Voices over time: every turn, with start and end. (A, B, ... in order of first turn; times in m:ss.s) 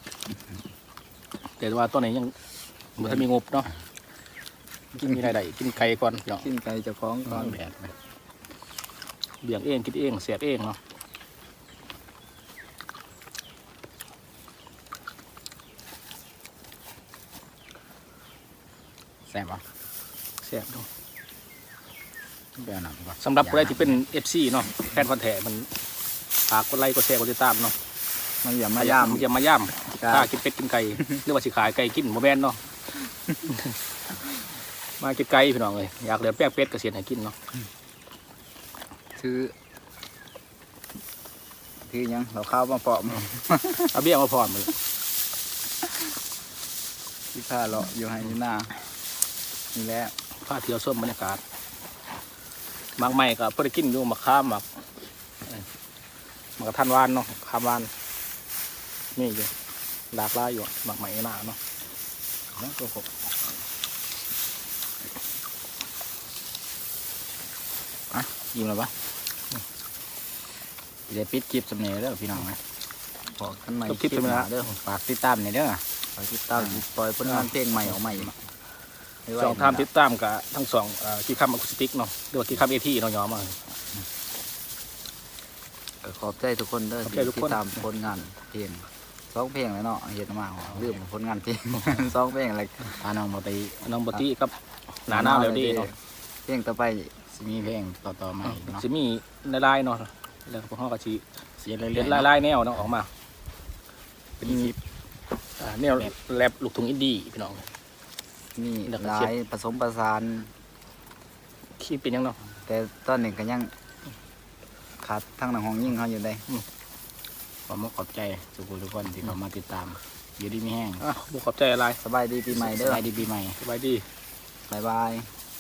0:01.6-0:02.3 A
0:03.0-0:03.7 A
0:05.0-0:06.4 A
0:06.4-0:07.6 B
0:07.3-0:07.9 C
0:09.4-0:10.8 A
0:19.3-0:19.6 C
0:20.4-0:20.9 A
0:22.6-0:24.0 C
0:23.2-0:25.7 A
0:26.5-0:27.8 A
0:28.4-0:29.3 B
0:28.8-0:32.6 A
0:29.8-0:30.3 B
0:35.0-0:37.4 A
0:39.2-0:39.5 B
0:41.9-0:43.9 B
0:43.9-0:44.7 A
0:47.3-0:48.8 B
0:49.7-0:50.1 B
0:50.4-0:51.4 A
0:53.0-0:54.7 A
0:56.6-0:57.9 A
0:59.2-0:59.5 A
1:00.1-1:01.6 A
1:02.6-1:03.1 C
1:08.1-1:08.9 C
1:11.1-1:12.6 C
1:13.4-1:14.7 B
1:13.9-1:14.5 A
1:14.6-1:15.8 C
1:16.2-1:18.3 B
1:19.3-1:19.9 B
1:19.4-1:23.6 A
1:26.0-1:33.0 B
1:27.1-1:27.6 A
1:32.9-1:33.9 C
1:33.9-1:34.6 A
1:35.1-1:35.9 A
1:35.1-1:36.0 B
1:36.5-1:37.2 B
1:37.3-1:38.8 C
1:38.5-1:41.2 A
1:41.6-1:42.3 C
1:42.0-1:43.1 A
1:44.4-1:44.8 C
1:45.6-1:47.6 A
1:48.6-1:50.5 B
1:48.9-1:49.3 A
1:51.8-1:52.4 A
1:52.7-1:53.7 B
1:55.0-1:56.5 B
1:57.7-2:01.0 C
2:01.0-2:02.0 A
2:02.0-2:03.0 B
2:02.6-2:03.6 C
2:03.6-2:04.1 A
2:04.7-2:05.3 B